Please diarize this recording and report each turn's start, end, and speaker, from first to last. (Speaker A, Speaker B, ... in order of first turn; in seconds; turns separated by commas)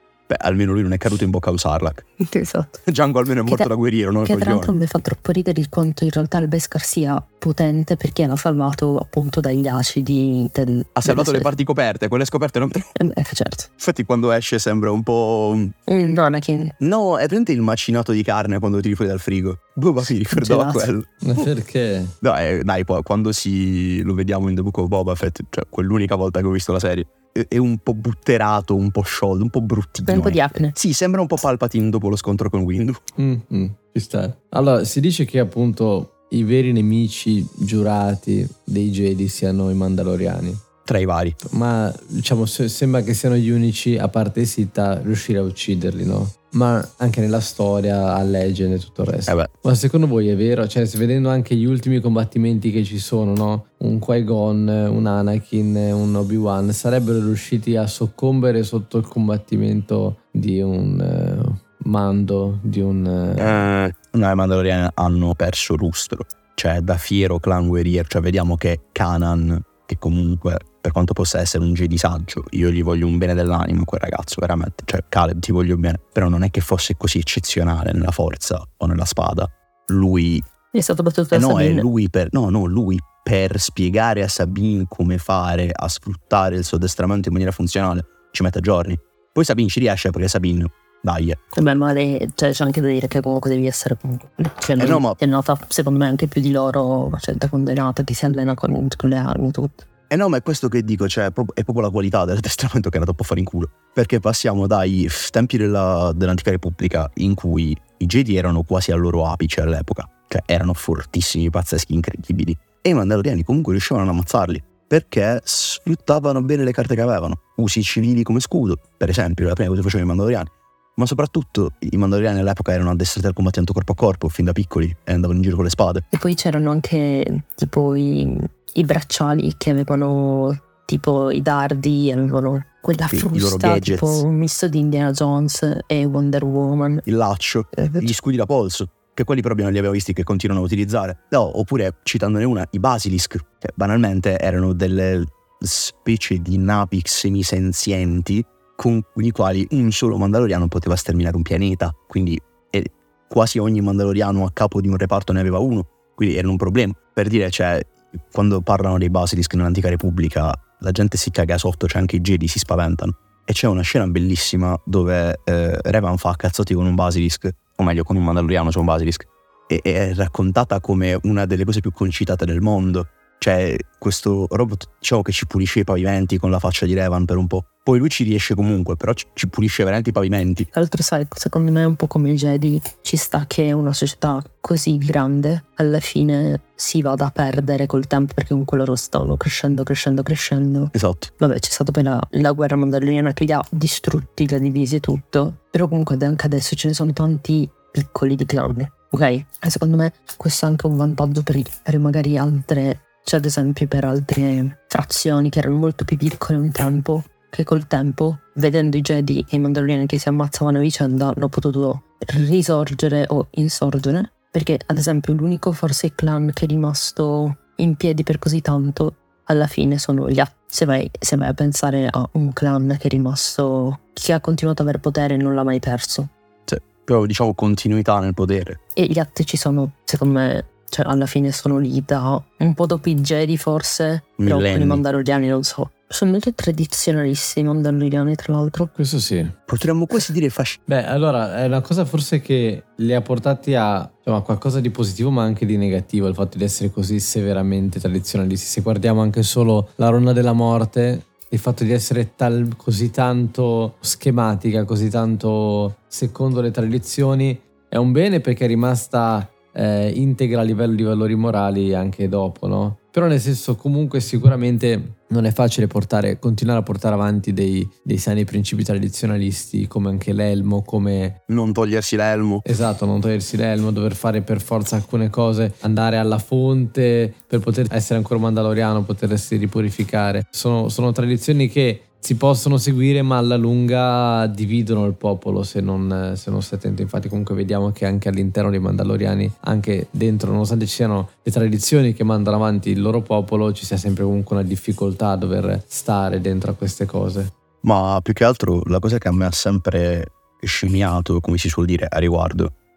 Speaker A: 0.3-2.0, Speaker B: 2.2-2.8, Speaker A: 2.9-4.8, Speaker B: 4.2-11.5, Speaker A: 11.0-12.9, Speaker B: 13.0-13.7, Speaker A: 13.8-15.8, Speaker B: 15.9-16.8, Speaker A: 16.8-21.1, Speaker B: 20.3-20.9, Speaker C: 21.2-22.1, Speaker A: 22.2-33.0, Speaker B: 30.1-30.8, Speaker C: 33.2-40.6, Speaker A: 40.9-41.4, Speaker C: 41.5-63.6, Speaker A: 63.4-80.5, Speaker B: 80.7-81.9, Speaker A: 81.3-91.4, Speaker B: 91.5-99.9, Speaker A: 94.8-95.2, Speaker A: 100.1-126.0, Speaker B: 126.1-137.1, Speaker A: 133.1-134.2, Speaker A: 137.1-180.7, Speaker B: 137.7-138.1, Speaker B: 180.7-226.3, Speaker A: 190.9-191.3, Speaker A: 226.7-228.8, Speaker B: 229.0-238.9, Speaker A: 234.4-235.0, Speaker C: 239.0-239.5, Speaker A: 239.7-240.8, Speaker C: 240.9-271.4, Speaker A: 271.5-272.6, Speaker C: 272.6-297.5, Speaker A: 297.8-302.7